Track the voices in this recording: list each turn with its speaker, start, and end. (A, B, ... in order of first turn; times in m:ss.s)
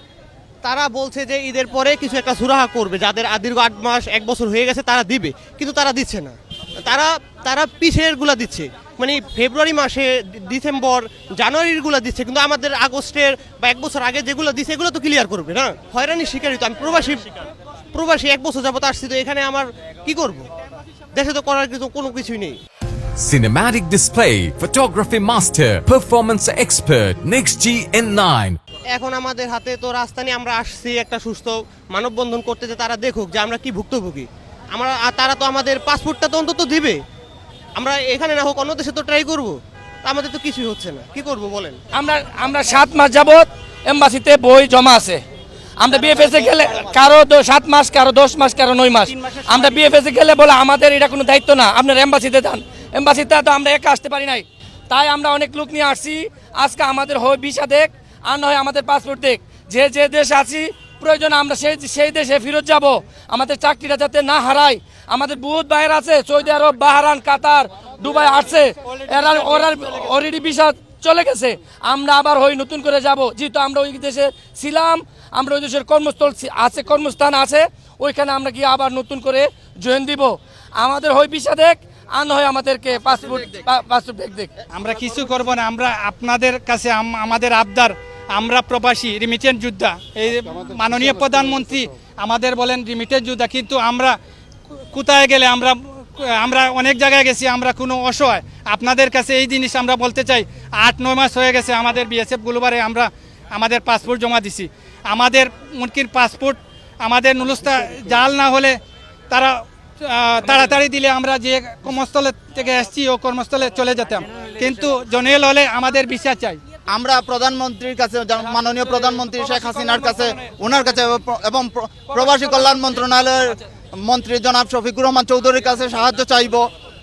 0:00.6-0:06.3 A
0:06.8-0:17.2 A
0:17.9-0:20.4 A
0:21.1-0:22.6 A
0:23.2-0:28.6 B
0:28.9-0:37.0 A
0:37.8-0:41.8 A
0:41.9-0:45.2 C
0:45.8-1:24.5 C
0:45.9-0:47.1 D
0:49.4-0:49.8 A
1:09.3-1:09.9 E
1:24.7-1:34.2 E
1:34.9-1:48.8 E
1:49.3-1:56.6 E
1:56.9-2:06.7 D
1:59.1-2:00.2 E